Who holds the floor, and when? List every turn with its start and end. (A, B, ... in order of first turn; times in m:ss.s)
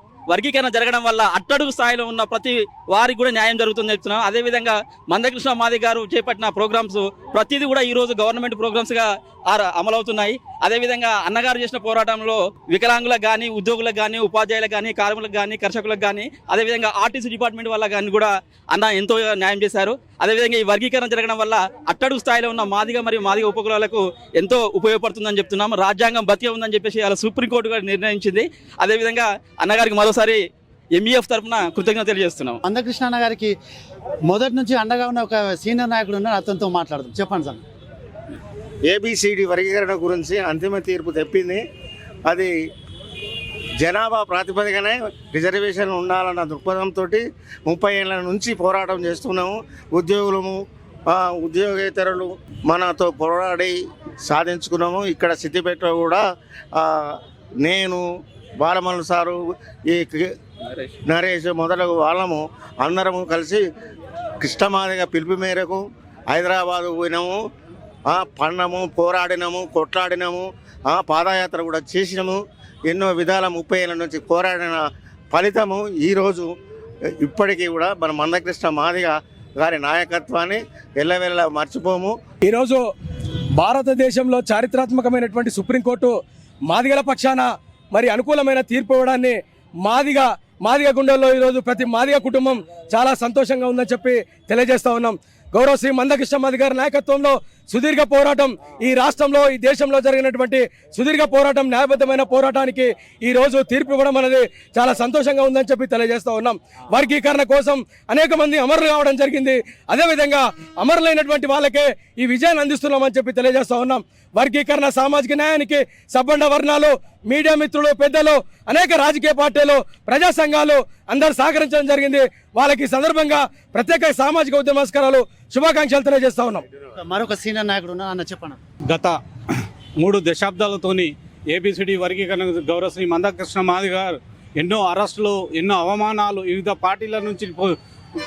0:00.3-0:30.4 A
0:30.9-0:32.6 A
0:32.6-0:33.5 B
0:34.3-0:37.6 B
0:38.9-0:41.6 C
0:42.3-0:42.5 C
0:43.8-0:50.6 C
0:51.1-0:53.7 C
0:54.2-0:56.2 C
0:56.7-0:58.0 C
0:58.6-1:00.3 C
1:01.1-1:03.6 C
1:04.4-1:07.4 C
1:08.1-1:16.5 C
1:17.2-1:22.1 C
1:22.4-1:22.8 D
1:23.6-1:26.2 D
1:26.7-2:06.6 D
2:07.0-2:08.6 B
2:08.9-2:09.2 E
2:10.0-2:17.7 E